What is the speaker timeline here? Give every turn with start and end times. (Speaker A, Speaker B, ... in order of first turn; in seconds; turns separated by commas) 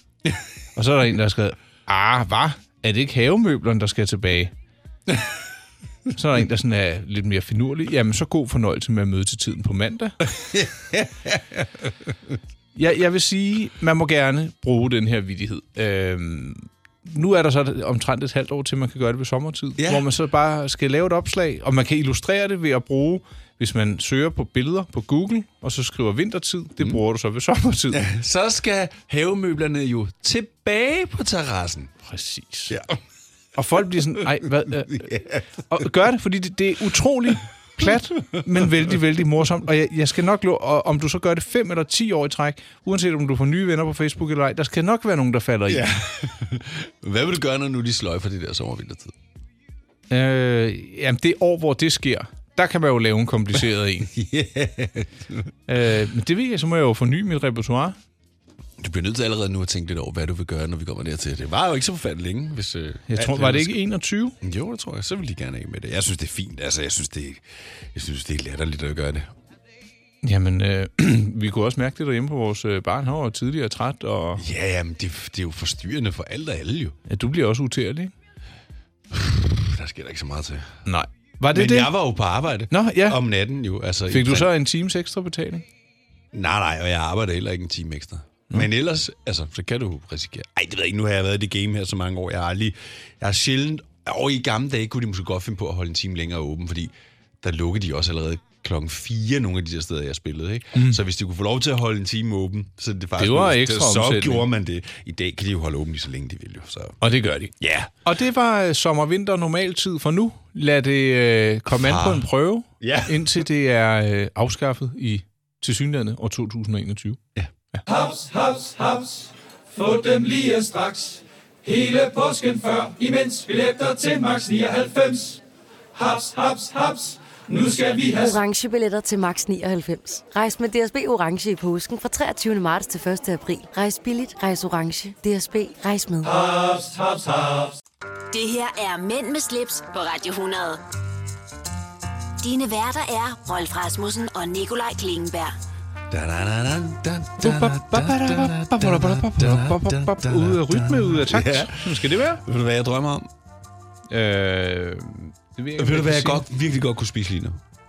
Speaker A: 0.7-4.5, Speaker B: 5.1-5.3, Speaker A: 6.1-10.2, Speaker B: 10.2-12.1, Speaker A: 12.7-28.0, Speaker B: 19.8-20.1, Speaker B: 27.9-31.9, Speaker A: 32.0-32.8, Speaker B: 32.7-33.0, Speaker A: 33.5-35.2, Speaker B: 34.7-35.4, Speaker A: 35.7-45.9, Speaker B: 45.7-49.1, Speaker A: 50.1-54.1, Speaker B: 54.1-55.5, Speaker A: 55.7-58.0, Speaker B: 58.8-63.8, Speaker A: 63.1-64.3, Speaker B: 64.4-69.3, Speaker A: 70.2-74.4, Speaker B: 74.4-77.0, Speaker A: 77.1-78.1, Speaker B: 79.1-80.8, Speaker A: 80.8-81.9, Speaker B: 81.5-84.5, Speaker A: 82.7-83.2, Speaker A: 84.1-85.7, Speaker B: 86.3-107.0, Speaker A: 100.7-101.0, Speaker A: 103.2-104.5, Speaker A: 107.0-107.5, Speaker B: 107.6-107.9, Speaker A: 108.0-117.2, Speaker B: 111.7-112.3, Speaker B: 112.8-113.4, Speaker C: 117.9-125.4, Speaker C: 125.9-128.3, Speaker D: 128.2-136.3, Speaker C: 136.3-137.8, Speaker E: 138.3-140.8, Speaker E: 142.4-145.5, Speaker B: 146.1-153.3, Speaker A: 147.4-152.4, Speaker A: 154.1-156.4, Speaker B: 155.8-157.6